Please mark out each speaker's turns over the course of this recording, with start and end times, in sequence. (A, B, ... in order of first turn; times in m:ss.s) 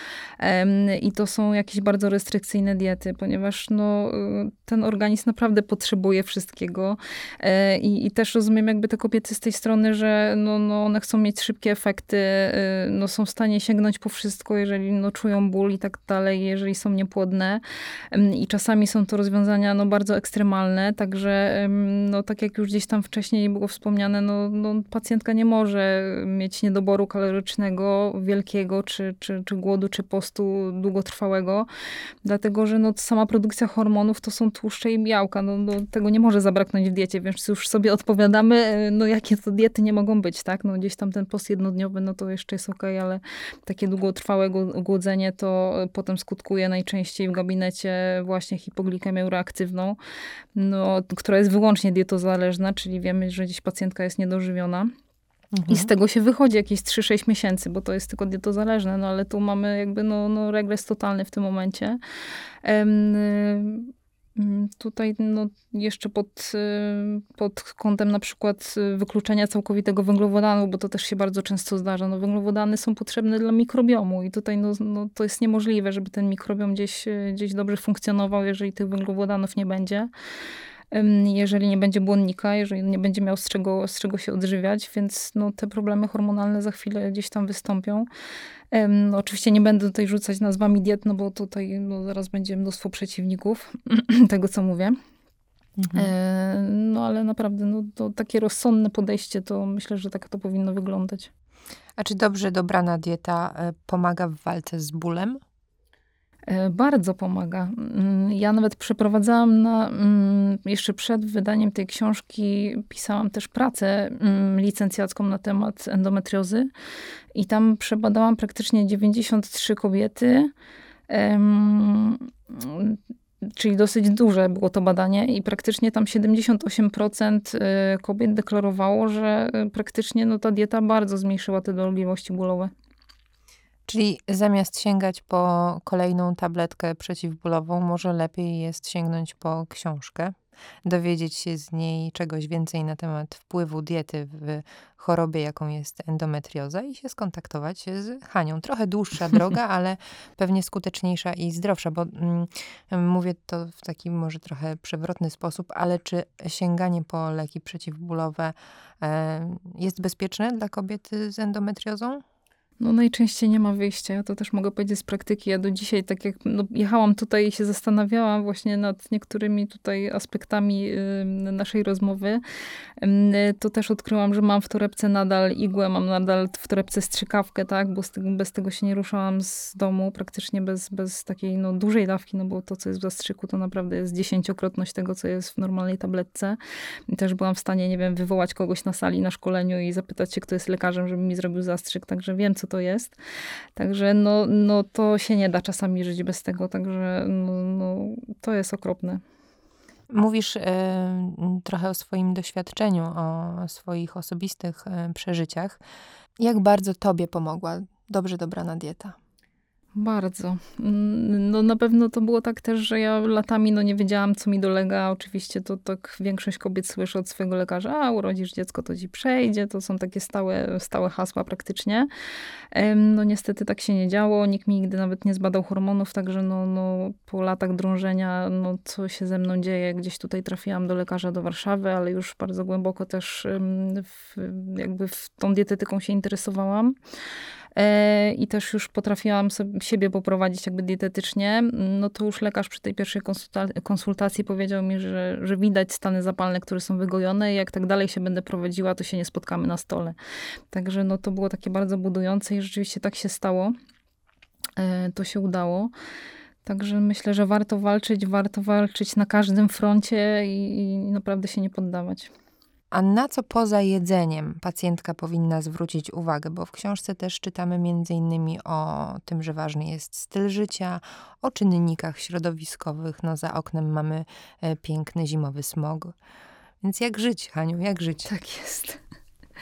0:00.4-0:31.7 A
0:32.2-0:50.0 A
0:50.5-0:54.9 A
0:55.5-0:55.9 B
0:55.7-1:02.0 A
1:02.6-1:20.1 A
1:20.9-1:28.1 A
1:28.7-1:35.0 A
1:35.8-1:36.1 B
1:35.9-1:41.3 A
1:42.0-1:45.4 B
1:46.5-1:56.7 A
1:57.3-2:00.5 A
2:01.1-2:12.7 A
2:13.9-2:42.2 B
2:42.8-2:52.4 A
2:53.0-3:06.6 A
3:07.1-3:13.2 A
3:13.8-3:19.2 A
3:20.1-3:25.8 B
3:26.4-3:29.2 B
3:30.0-3:42.1 A
3:42.7-3:56.9 A
3:57.8-4:10.1 A
4:10.7-4:13.7 A
4:14.8-4:15.9 A
4:16.6-4:22.3 A
4:22.9-4:36.1 B
4:36.8-4:38.3 B
4:38.2-4:39.0 A